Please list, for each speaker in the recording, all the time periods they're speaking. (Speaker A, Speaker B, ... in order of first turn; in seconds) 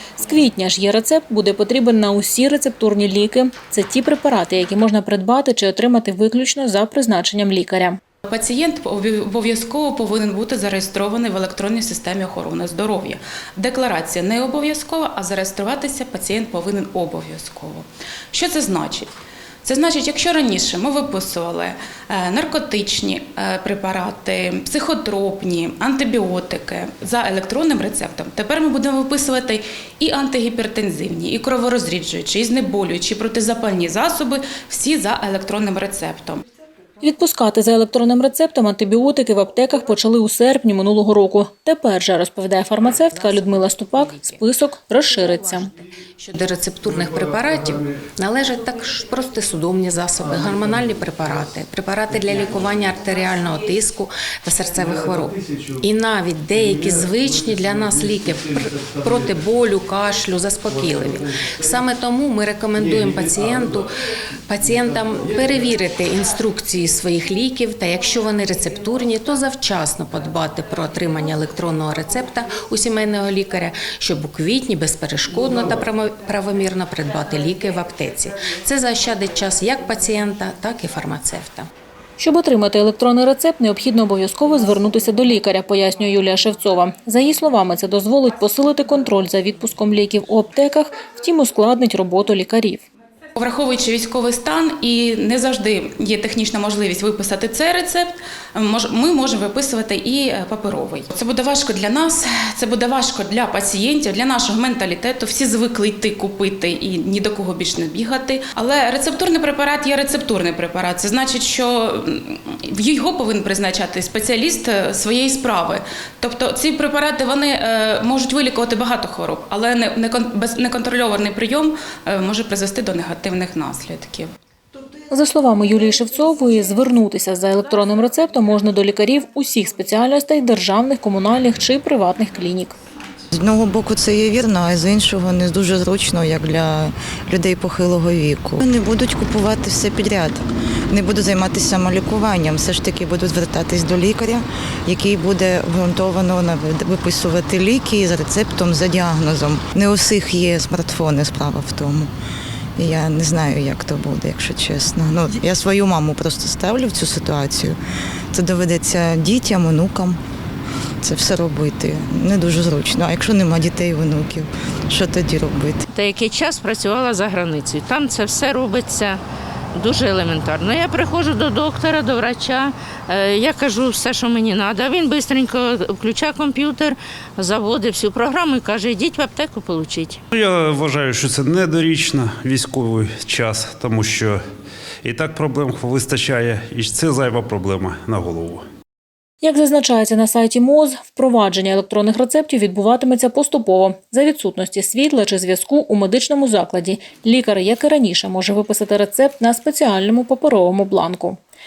Speaker A: 0.2-8.0, 37.0-45.7, 82.2-92.9, 125.1-132.8, 189.4-201.4
Speaker B: 8.3-19.1, 19.6-36.4, 93.4-124.3
Speaker C: 43.2-44.4, 45.1-63.9, 64.5-81.7
Speaker D: 133.3-152.1, 152.8-157.8, 158.3-160.2, 161.0-165.8
Speaker E: 166.0-169.2, 169.8-180.1
Speaker F: 180.3-184.4, 185.0-188.6